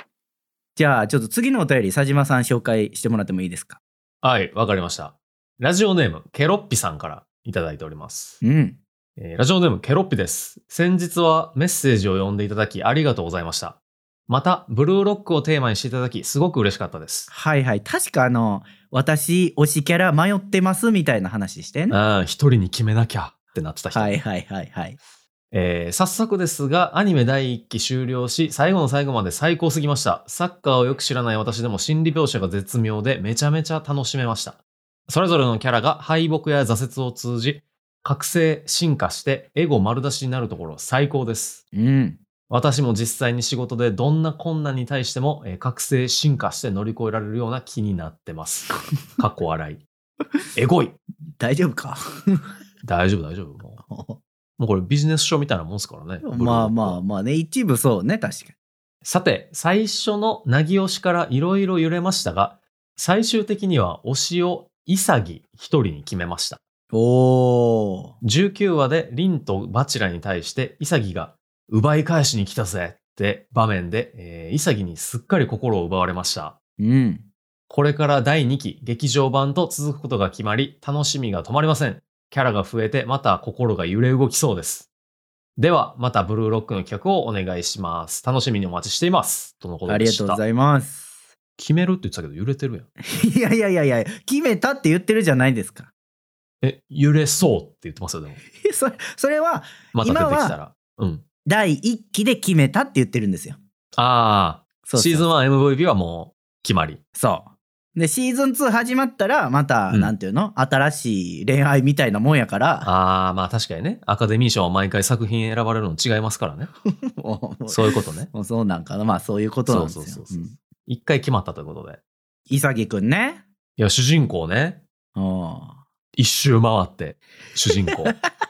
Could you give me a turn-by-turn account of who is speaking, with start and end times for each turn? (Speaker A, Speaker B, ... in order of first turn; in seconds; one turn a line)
Speaker A: 0.8-3.8
Speaker B: 4.2-8.4
Speaker A: 8.4-8.8
Speaker B: 9.2-13.8
Speaker B: 14.3-17.3
Speaker A: 17.3-22.0
Speaker B: 21.9-24.2
Speaker A: 23.9-25.0
Speaker B: 25.5-41.6
Speaker A: 41.7-42.2
Speaker B: 42.5-49.8
Speaker B: 50.5-51.0
Speaker A: 51.4-52.0
Speaker B: 52.8-53.8
Speaker A: 53.9-54.2
Speaker B: 54.6-57.0
Speaker A: 56.2-58.5
Speaker B: 59.0-66.6
Speaker A: 66.9-68.1
Speaker B: 68.2-76.5
Speaker A: 76.8-77.2
Speaker B: 77.7-84.9
Speaker B: 85.6-90.4
Speaker A: 89.9-91.1
Speaker B: 91.6-92.9
Speaker A: 93.0-95.9
Speaker B: 96.6-98.4
Speaker A: 98.6-100.6
Speaker B: 99.9-101.2
Speaker A: 101.5-103.6
Speaker B: 104.0-107.0
Speaker A: 104.8-105.3
Speaker A: 107.2-112.9
Speaker B: 112.8-116.7
Speaker A: 116.9-120.6
Speaker B: 117.7-118.3
Speaker B: 119.7-122.0
Speaker A: 122.5-123.4
Speaker B: 123.8-124.8
Speaker A: 125.1-125.8
Speaker B: 126.2-128.1